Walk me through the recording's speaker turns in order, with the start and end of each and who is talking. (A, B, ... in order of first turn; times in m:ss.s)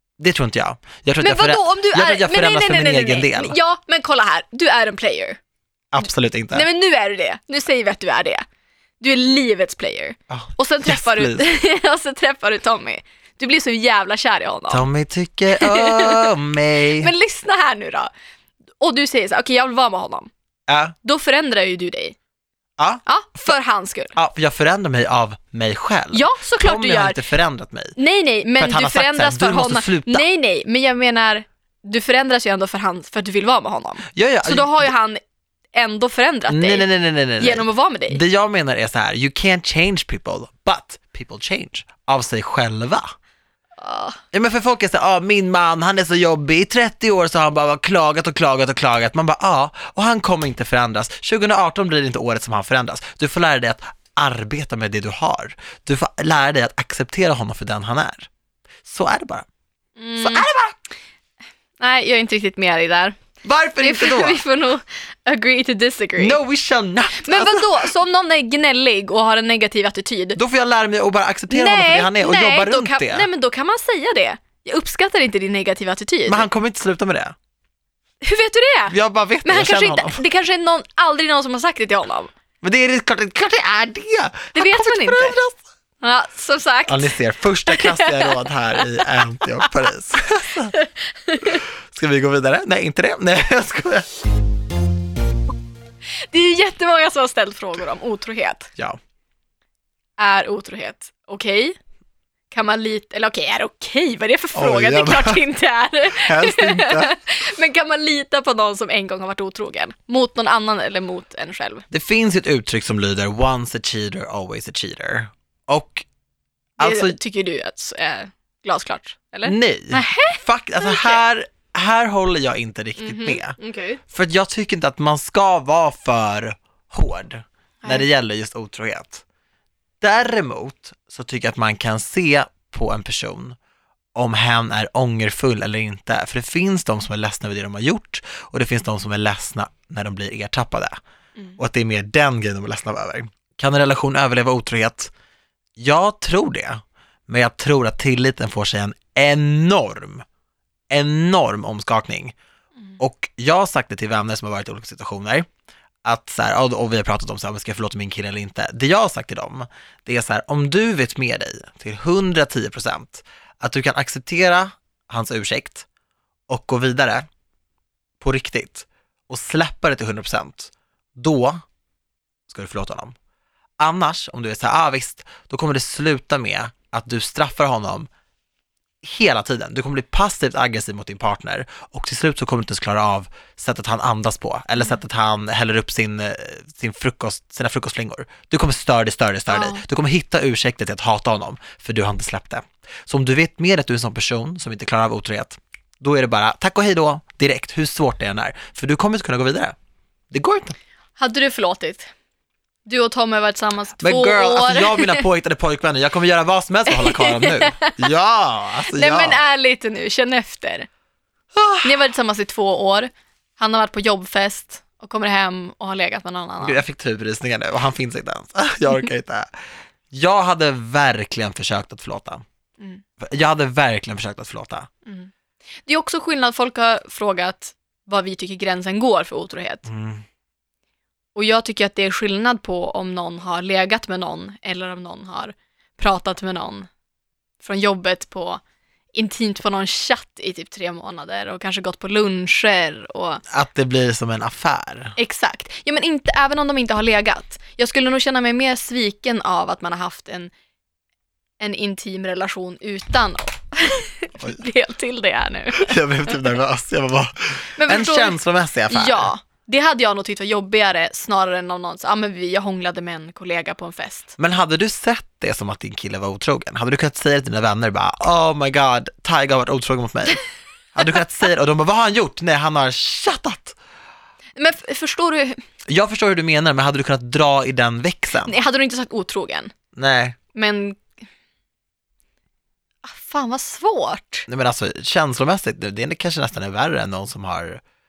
0:00.2-0:03.6 A
0:01.2-0:05.4 B
0:05.9-0:06.7 A
0:06.5-0:08.4 B
0:09.0-0:14.8 B
0:10.3-0:11.4 A
0:14.7-0:17.1 A
0:15.6-0:16.3 B
0:17.0-0:18.1 B
0:18.8-0:20.3 B
0:20.7-0:21.0 A
0:21.0-0:22.2 B
0:23.1-0:24.1 B
0:24.2-0:28.0 A
0:26.1-0:27.2 B
0:28.0-0:35.2 B
0:28.6-0:30.2 A
0:34.1-0:34.9 A
0:35.7-0:36.9 B
0:36.5-0:43.1 A
0:37.4-0:38.2 B
0:43.8-0:44.2 B
0:44.3-0:58.3 A
0:58.8-0:59.5 A
1:00.0-1:00.5 B
1:00.2-1:00.8 A
1:01.8-1:03.2 B
1:03.4-1:04.4 A
1:03.8-1:06.4 B
1:06.2-1:07.9 A
1:07.2-1:10.4 B
1:10.4-1:13.3 A
1:11.5-1:16.5 B
1:16.3-1:17.4 A
1:18.2-1:22.3 B
1:18.9-1:20.2 A
1:22.6-1:25.6 A
1:24.6-1:25.4 B
1:26.0-1:27.2 B
1:26.9-1:30.8 A
1:27.7-1:29.1 B
1:30.7-1:31.6 B
1:31.5-1:34.1 A
1:36.2-1:38.7 B
1:40.2-1:41.8 B
1:42.5-1:51.9 B
1:44.6-1:45.4 A
1:46.1-1:47.1 A
1:51.9-1:56.1 A
1:56.8-1:57.2 A
1:56.8-2:01.2 B
1:59.4-2:03.6 A
2:03.0-2:04.0 B
2:04.1-2:09.2 A
2:10.0-2:13.6 A
2:14.2-2:21.0 A
2:21.6-2:25.1 A
2:25.8-2:30.2 A
2:30.9-2:32.4 A
2:33.0-2:35.5 A
2:36.0-2:45.9 A
2:46.5-2:47.3 A
2:48.2-2:51.6 A
2:52.5-2:53.2 A
2:53.8-2:58.1 A
2:59.0-3:19.8 A
3:09.5-3:09.8 B
3:20.3-3:20.8 A
3:21.2-3:22.1 B
3:22.9-3:25.2 B
3:24.0-3:29.4 A
3:26.9-3:28.1 B
3:28.9-3:30.9 B
3:31.6-3:32.0 A
3:31.8-3:36.8 B
3:36.6-3:39.5 A
3:40.1-3:42.4 A
3:43.2-3:44.9 A
3:45.1-3:45.3 B
3:45.9-3:49.9 B
3:49.9-3:50.2 A
3:51.4-3:56.9 B
3:57.6-3:58.6 B
3:59.1-4:03.4 B
4:03.5-4:05.2 A
4:05.2-4:10.5 B
4:11.6-4:16.5 B
4:15.7-4:19.3 A
4:17.8-4:24.4 B
4:24.4-4:30.4 A
4:30.9-4:33.8 A
4:34.6-4:35.6 B
4:35.9-4:38.6 A
4:38.4-4:39.7 B
4:40.0-4:40.4 A
4:40.5-4:41.1 B
4:43.0-4:44.5 B
4:44.5-4:47.8 A